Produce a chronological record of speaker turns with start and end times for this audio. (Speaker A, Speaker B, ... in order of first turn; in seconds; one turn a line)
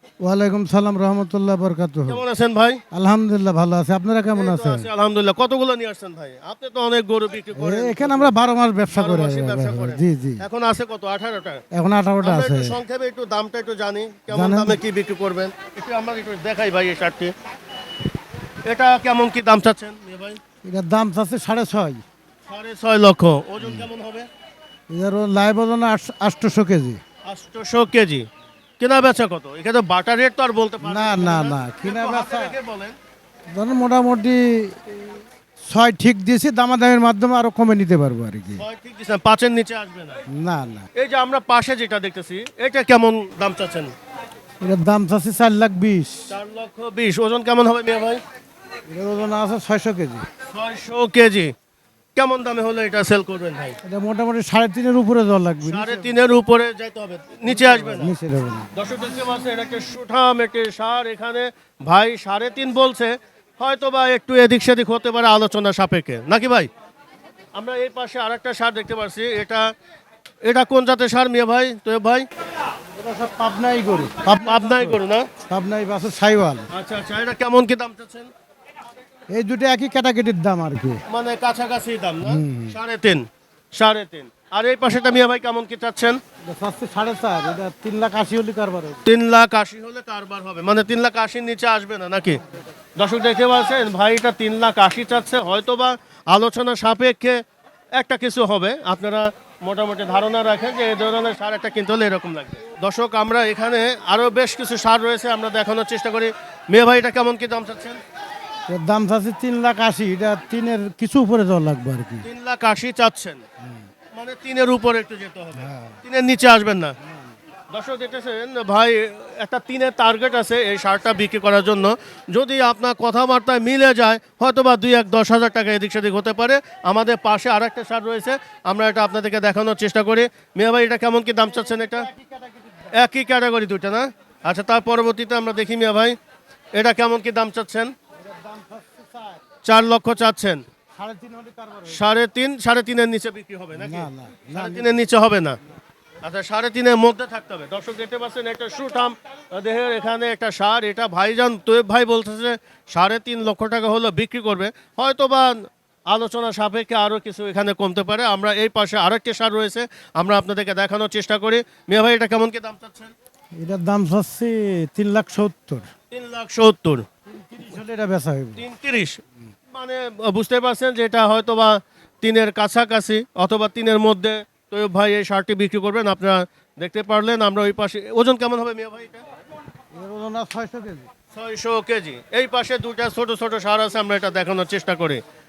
Speaker A: 0.2-2.2
Speaker B: 2.1-2.8
Speaker A: 2.9-4.9
Speaker B: 4.3-8.3
Speaker A: 7.5-10.4
Speaker B: 8.9-11.6
Speaker A: 11.7-12.8
Speaker B: 12.2-17.3
Speaker A: 14.3-14.8
Speaker B: 18.6-20.4
Speaker A: 20.6-22.0
Speaker B: 22.5-24.3
Speaker A: 23.6-23.9
Speaker A: 24.9-27.0
Speaker B: 27.2-28.2
Speaker B: 28.8-32.9
Speaker A: 30.8-32.5
Speaker A: 33.5-34.9
Speaker A: 35.7-38.6
Speaker B: 38.6-40.2
Speaker A: 40.3-40.8
Speaker B: 41.0-43.9
Speaker A: 44.6-46.2
Speaker B: 46.3-48.2
Speaker A: 48.9-50.2
Speaker B: 50.5-51.5
Speaker B: 52.1-53.8
Speaker A: 53.8-56.1
Speaker B: 55.6-58.1
Speaker A: 57.5-58.7
Speaker B: 58.7-66.7
Speaker B: 67.5-69.6
Speaker B: 70.4-72.2
Speaker A: 73.0-75.0
Speaker B: 74.4-75.3
Speaker A: 75.5-76.7
Speaker B: 76.7-78.3
Speaker A: 79.3-81.0
Speaker B: 81.1-83.2
Speaker A: 82.2-82.8
Speaker B: 83.8-86.2
Speaker A: 86.5-89.0
Speaker B: 89.0-92.4
Speaker B: 93.0-97.4
Speaker B: 97.9-108.0
Speaker A: 108.7-112.2
Speaker B: 112.2-113.4
Speaker B: 114.2-117.0
Speaker A: 115.6-115.9
Speaker B: 117.7-132.1
Speaker A: 131.9-132.5
Speaker B: 132.9-136.2
Speaker B: 136.7-137.9
Speaker A: 138.3-139.4
Speaker B: 139.6-140.6
Speaker A: 141.0-142.0
Speaker B: 141.9-145.6
Speaker A: 143.8-144.9
Speaker B: 146.2-163.1
Speaker A: 163.6-165.8
Speaker B: 166.1-167.0
Speaker A: 167.5-168.6
Speaker B: 168.6-169.2
Speaker B: 169.7-179.2
Speaker A: 179.9-181.1
Speaker B: 181.3-185.2